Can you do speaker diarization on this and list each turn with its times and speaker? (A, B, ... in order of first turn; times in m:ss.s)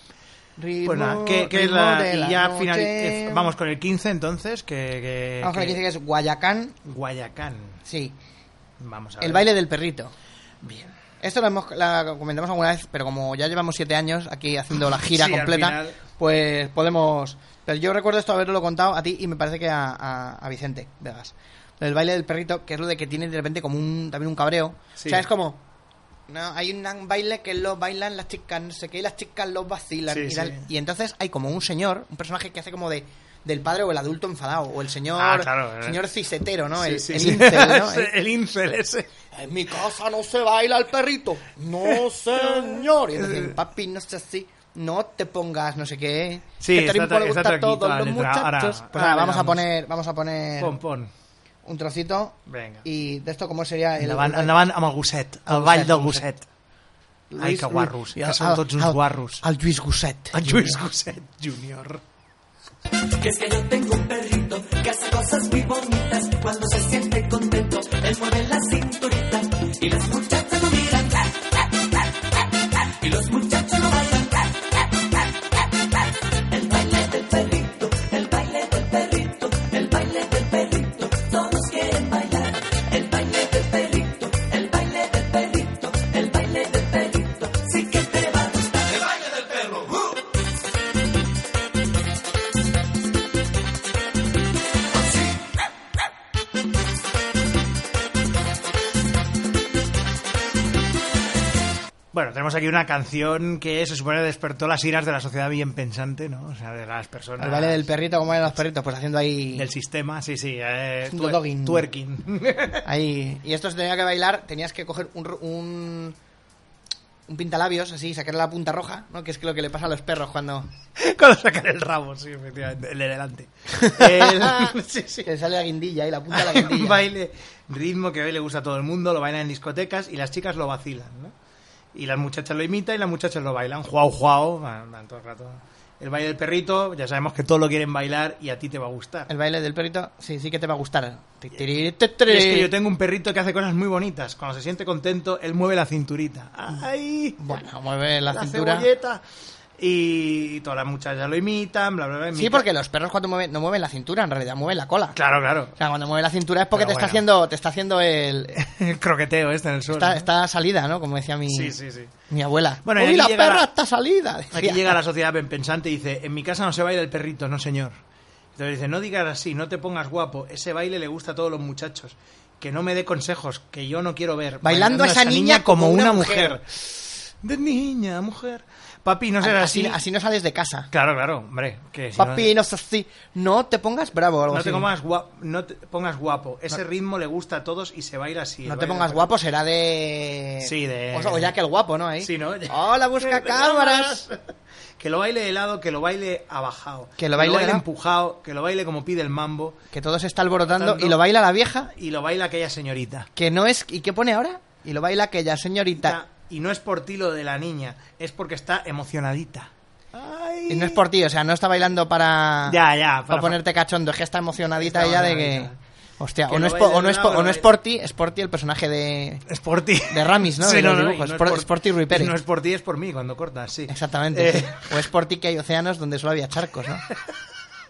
0:00.6-0:03.5 A
0:00.8-0:05.8 B
0:05.4-0:06.8 A
0:06.8-0:07.8 B
0:07.8-0:08.2 A
0:08.8-0:09.5 B
0:09.2-0:10.1 A
0:10.6-0:11.0 B
0:11.2-0:25.6 A
0:14.9-0:16.0 B
0:25.0-0:25.2 B
0:26.3-0:38.1 A
0:30.1-0:30.6 B
0:35.1-0:36.0 B
0:36.7-0:39.1 B
0:39.3-0:50.8 A
0:41.8-0:43.6 B
0:46.6-0:49.6 B
0:50.6-0:51.1 B
0:51.6-0:54.6 A
0:52.5-0:52.8 B
0:54.0-0:56.5 B
0:55.4-0:56.2 A
0:57.3-1:00.8 A
0:57.4-0:59.4 B
1:00.3-1:02.0 B
1:03.2-1:11.5 C
1:13.0-1:14.7 C
1:16.5-1:29.1 C
1:42.1-1:47.9 B
1:47.4-1:49.7 A
1:49.5-1:52.8 B
1:51.1-1:51.9 A
1:52.8-1:56.2 A
1:57.3-2:00.7 A
2:01.0-2:05.3 B
2:03.7-2:07.0 A
2:06.3-2:11.3 B
2:11.9-2:19.3 B
2:19.3-2:22.7 A
2:22.2-2:27.6 B
2:27.4-2:28.9 A
2:28.2-2:29.2 B
2:29.8-2:32.6 B
2:32.3-2:35.2 A
2:35.1-2:35.7 B
2:35.8-2:38.6 A
2:36.7-2:37.2 B
2:38.6-2:40.3 B
2:39.9-2:41.8 A
2:41.5-2:42.1 B
2:42.3-2:45.0 A
2:42.8-2:43.7 B
2:44.5-2:47.9 B
2:48.5-3:00.0 B
2:54.6-2:56.6 A
2:59.4-3:00.9 A
3:00.9-3:02.5 B
3:02.2-3:04.9 A
3:04.5-3:09.3 B
3:08.6-3:14.2 A
3:10.6-3:11.5 B
3:12.2-3:19.8 B
3:17.2-3:17.8 A
3:19.9-3:21.9 A
3:20.7-3:21.2 B
3:21.9-3:23.3 B
3:23.4-3:26.2 A
3:26.0-3:31.0 B
3:30.7-3:39.4 A
3:32.6-3:33.6 B
3:34.8-3:35.8 B
3:36.4-3:37.7 B
3:39.5-3:44.9 B
3:40.1-3:42.3 A
3:43.9-3:47.0 A
3:47.1-3:47.4 B